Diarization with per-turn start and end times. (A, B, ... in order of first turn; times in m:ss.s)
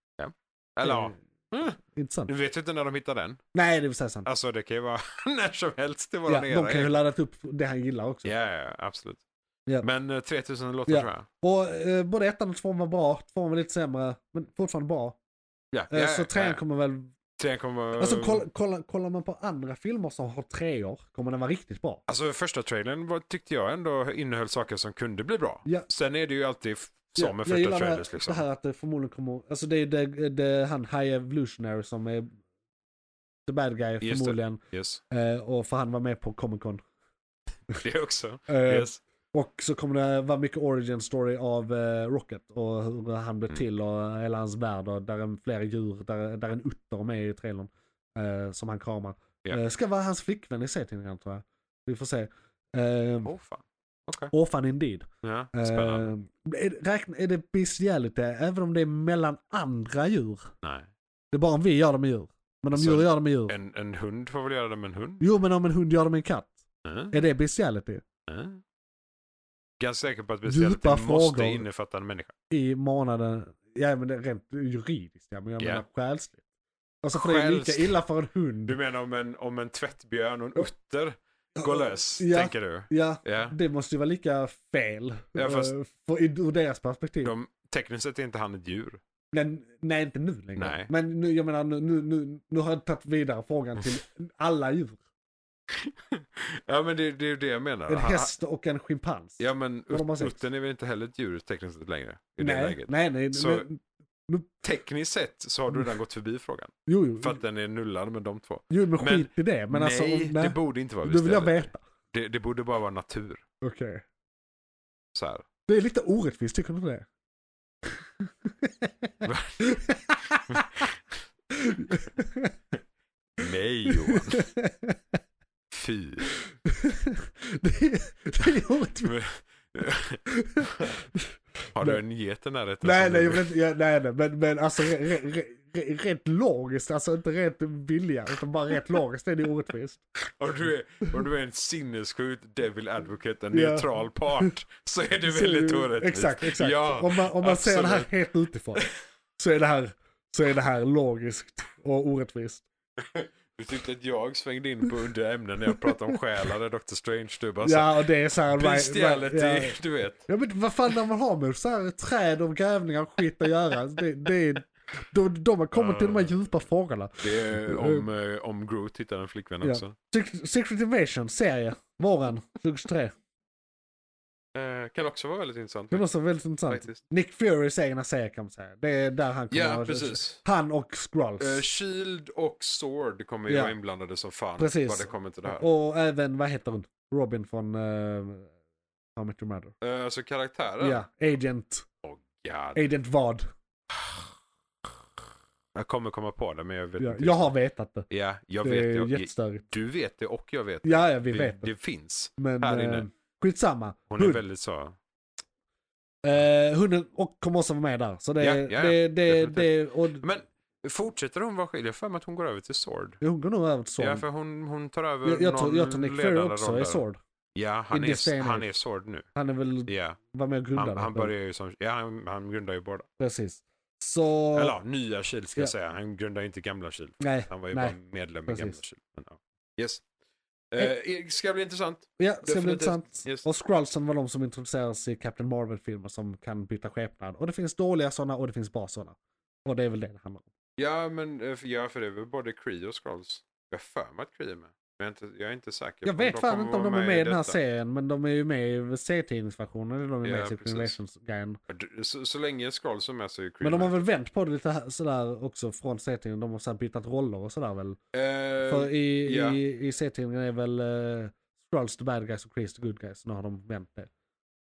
0:00.2-0:03.4 A
0:00.8-0:01.2 B
0:01.8-0:02.3 B
0:03.5-0:04.3 B
0:04.2-0:07.0 A
0:06.3-0:08.3 B
0:08.2-0:09.2 A
0:09.8-0:11.3 A
0:10.9-0:15.2 B
0:15.7-0:16.6 A
0:15.9-0:17.1 B
0:17.4-0:18.4 A
0:18.0-0:22.0 B
0:22.1-0:28.4 A
0:27.2-0:32.4 B
0:33.5-0:36.8 B
0:34.0-0:35.0 A
0:37.8-0:39.0 A
0:38.5-0:53.3 B
0:53.2-0:54.3 A
0:54.3-1:00.5 B
0:55.2-0:56.1 A
1:00.6-1:00.9 A
1:01.3-1:03.6 B
1:02.7-1:05.2 A
1:05.2-1:06.6 B
1:06.8-1:07.2 A
1:07.1-1:08.0 B
1:08.3-1:08.6 A
1:09.8-1:12.3 A
1:10.5-1:11.6 B
1:12.5-1:16.4 B
1:17.0-1:18.8 B
1:17.1-1:18.0 A
1:18.7-1:23.6 A
1:21.6-1:27.3 B
1:25.4-1:25.7 A
1:27.2-1:29.0 A
1:29.3-1:35.0 B
1:30.6-1:30.9 A
1:35.7-1:38.3 A
1:37.9-1:40.4 B
1:39.4-1:43.7 A
1:42.4-1:44.5 B
1:44.6-1:53.4 A
1:46.9-1:47.4 B
1:48.7-1:51.8 B
1:53.6-1:54.0 B
1:55.1-1:55.5 A
1:55.7-1:57.1 B
1:58.2-2:00.7 B
1:59.2-1:59.6 A
2:00.5-2:01.0 A
2:01.6-2:02.6 B
2:03.4-2:04.5 A
2:03.9-2:05.0 B
2:05.7-2:06.3 A
2:06.6-2:09.2 B
2:09.0-2:10.9 A
2:10.3-2:12.0 B
2:11.7-2:13.5 A
2:12.8-2:20.0 B
2:20.4-2:28.1 A
2:23.5-2:24.5 B
2:25.2-2:32.6 B
2:33.0-2:40.3 A
2:37.6-2:48.1 B
2:45.7-2:46.3 A
2:47.2-2:50.0 A
2:49.6-2:53.2 B
2:54.5-2:56.1 A
2:55.9-3:01.6 B
2:56.7-2:57.0 A
2:59.5-3:00.4 A
3:01.4-3:05.7 A
3:03.5-3:03.8 B
3:04.6-3:08.5 B
3:09.2-3:09.8 B
3:09.8-3:11.0 A
3:10.8-3:11.9 B
3:12.0-3:12.8 A
3:12.8-3:13.5 B
3:13.9-3:14.3 A
3:15.8-3:17.5 A
3:17.0-3:18.1 B
3:18.1-3:23.1 A
3:18.6-3:19.7 B
3:20.8-3:21.7 B
3:22.4-3:24.4 B
3:24.1-3:25.0 A
3:26.2-3:30.2 B
3:28.4-3:33.2 A
3:33.2-3:34.3 B
3:34.0-3:37.0 A
3:35.2-3:37.2 B
3:37.6-3:39.3 A
3:37.9-3:38.7 B
3:39.4-3:41.3 B
3:39.9-3:40.2 A
3:40.8-3:43.1 A
3:43.2-3:44.8 B
3:44.5-3:50.1 A
3:47.2-3:48.8 B
3:50.7-3:53.5 A
3:52.2-4:00.5 B
4:00.8-4:07.6 A
4:06.0-4:11.6 B
4:10.2-4:11.0 A
4:11.7-4:14.0 A
4:13.6-4:18.0 B
4:18.1-4:19.6 A
4:18.6-4:24.1 B